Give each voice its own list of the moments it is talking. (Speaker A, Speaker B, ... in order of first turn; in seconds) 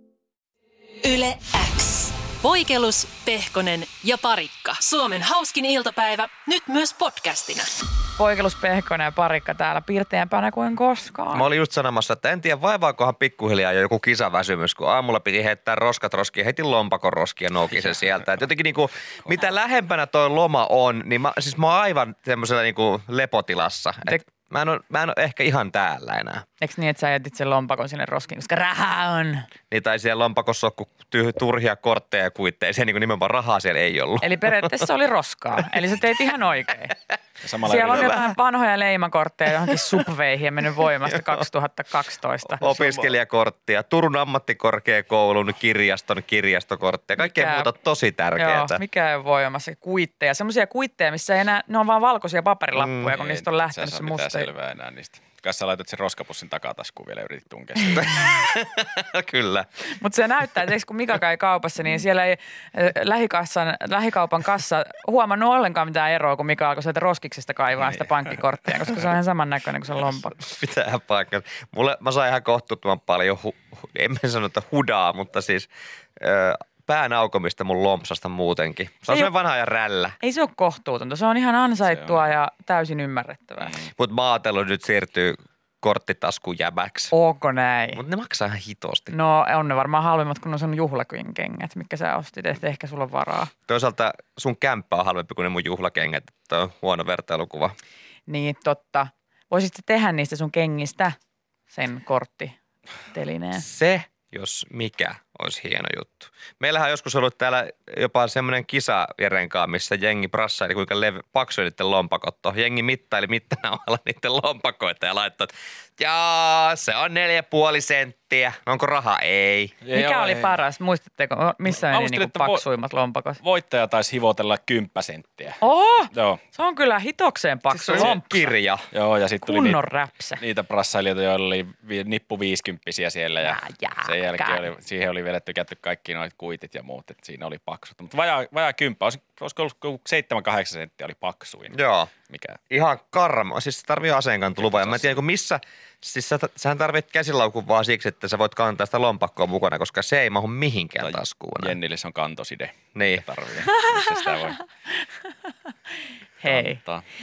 Speaker A: 1.0-7.7
Speaker B: 8.2-11.5, 26.6-29.5, 34.2-36.9, 37.6-43.1, 47.2-47.7, 48.4-54.5, 60.0-70.4, 80.2-83.8, 87.1-88.0, 89.1-93.5, 98.3-101.2, 101.7-102.6, 103.1-103.7, 119.9-123.4, 125.6-128.5, 129.4-130.4, 133.4-134.6, 153.7-154.3, 156.4-156.8
Speaker C: 11.3-26.4, 29.7-34.9, 42.6-48.8, 52.8-53.1, 57.9-59.7, 70.4-80.2, 84.0-87.1, 88.0-89.1, 93.7-97.8, 103.6-119.8, 127.7-128.9, 141.7-142.1, 142.7-151.8, 152.9-153.3
Speaker D: 37.4-38.2, 53.0-58.1, 81.8-82.2, 119.8-120.6, 121.7-122.7, 123.4-125.6, 126.1-126.4, 128.9-129.8, 130.4-142.6, 144.6-145.2, 151.0-154.6, 156.4-157.0